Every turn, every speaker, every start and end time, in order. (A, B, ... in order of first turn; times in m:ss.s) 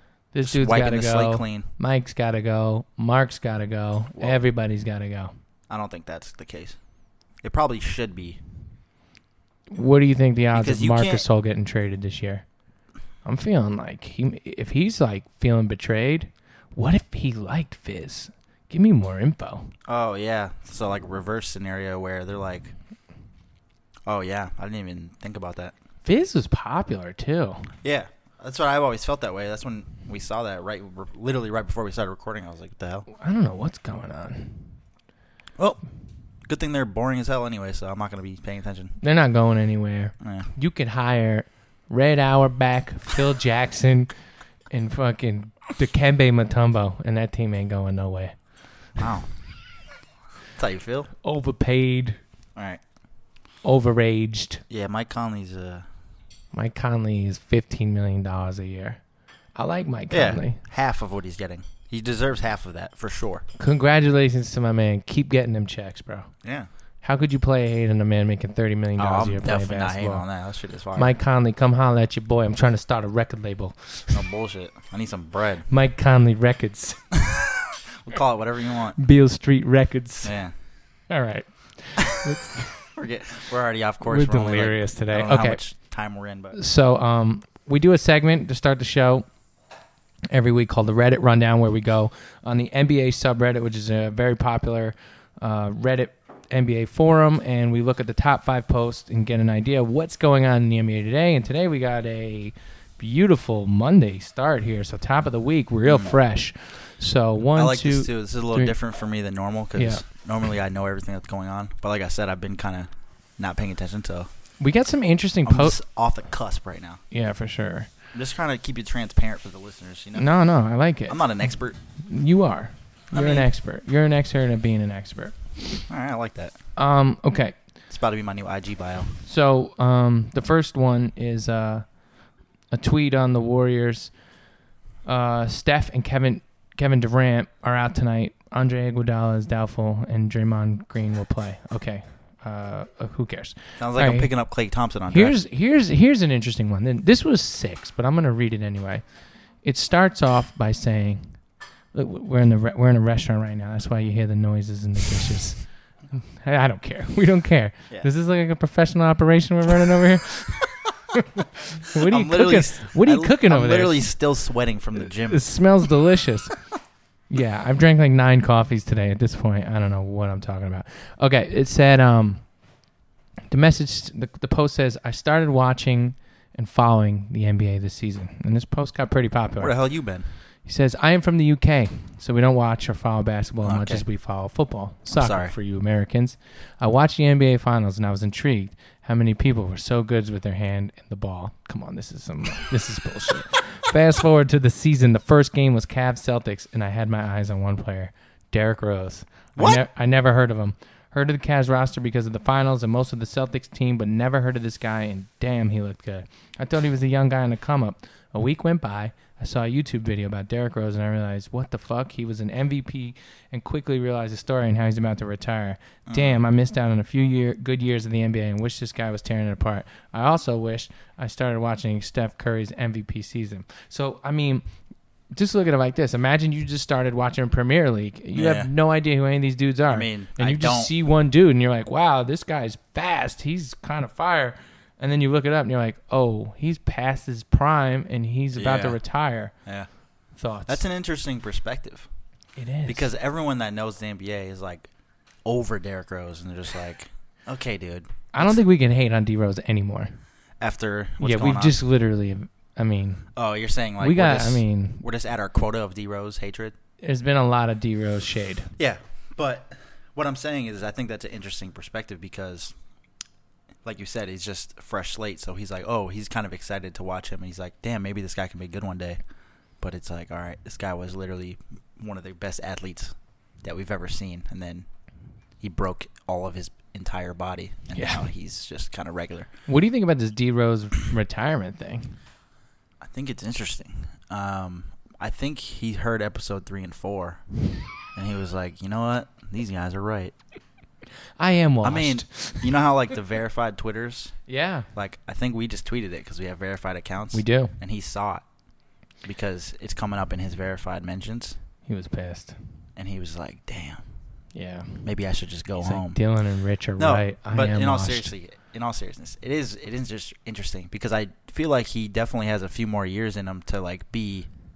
0:00.3-0:05.3 A
0:00.4-0:01.7 B
0:04.2-0:04.4 B
0:05.7-0:06.8 B
0:07.4-0:08.4 B
0:09.7-0:12.4 A
0:10.5-0:11.2 B
0:13.2-0:19.7 A
0:19.9-0:22.7 B
0:24.0-0:25.7 B
0:26.0-0:27.7 A
0:27.8-0:33.0 B
0:33.1-0:34.8 A
0:36.4-0:38.9 B
0:39.0-0:44.1 A
0:40.2-0:40.5 B
0:44.7-0:48.3 A
0:49.0-0:49.3 B
0:50.6-0:51.1 B
0:51.2-0:52.2 A
0:52.5-0:52.8 B
0:53.6-0:54.6 A
0:54.7-0:55.8 B
0:56.5-0:59.0 A
0:59.6-1:00.6 A
1:00.1-1:03.4 B
1:03.6-1:06.3 A
1:07.0-1:10.2 A
1:09.0-1:11.1 B
1:10.9-1:14.2 A
1:14.1-1:15.7 B
1:15.7-1:17.0 A
1:17.1-1:19.0 B
1:19.0-1:20.4 A
1:20.2-1:20.5 B
1:21.1-1:22.9 A
1:22.9-1:26.6 B
1:24.0-1:25.6 A
1:26.5-1:29.2 A
1:30.3-1:48.8 A
1:45.8-1:46.2 B
1:47.6-1:54.3 B
1:49.8-1:50.0 A
1:54.6-1:55.8 A
1:55.4-1:57.0 B
1:57.1-1:57.9 A
1:58.1-2:00.2 B
2:00.2-2:01.2 A
2:01.1-2:01.8 B
2:02.0-2:05.4 A
2:03.1-2:03.5 B
2:05.9-2:06.6 B
2:06.8-2:07.6 A
2:07.9-2:09.1 B
2:09.2-2:11.8 A
2:12.7-2:14.1 A
2:15.0-2:24.3 A
2:23.8-2:25.3 B
2:25.1-2:29.0 A
2:29.6-2:31.3 A
2:31.9-2:35.6 A
2:36.1-2:44.1 A
2:41.9-2:45.4 B
2:45.1-2:46.6 A
2:47.3-2:52.4 A
2:53.5-2:59.7 A
2:59.6-3:00.2 B
3:00.6-3:44.6 A
3:03.6-3:04.0 B
3:05.1-3:05.5 B
3:19.6-3:19.8 B
3:36.1-3:36.4 B
3:45.3-3:59.5 A
3:48.3-3:48.7 B
3:49.9-3:50.9 B
3:58.5-3:59.0 B
4:00.4-4:00.8 A
4:00.7-4:02.1 B
4:02.6-4:03.1 A
4:02.8-4:04.9 B
4:05.4-4:08.6 B
4:08.3-4:10.1 A
4:10.6-4:11.8 B
4:11.2-4:13.3 A
4:13.3-4:16.7 B
4:14.0-4:15.0 A
4:17.0-4:18.7 A
4:18.8-4:22.7 B
4:23.8-4:29.2 B
4:29.8-4:34.9 B
4:35.6-4:39.5 B
4:37.9-4:38.2 A
4:39.7-4:42.2 A
4:43.0-4:47.4 B
4:48.1-4:50.3 B
4:51.4-4:52.7 A
4:51.8-4:54.4 B
4:54.5-4:54.9 A
4:54.9-4:58.4 B
4:57.3-4:57.7 A
4:59.2-5:01.6 B
5:01.8-5:02.6 A
5:03.0-5:04.0 B
5:04.5-5:05.0 A
5:05.0-5:06.2 B
5:05.8-5:08.3 A
5:07.0-5:14.5 B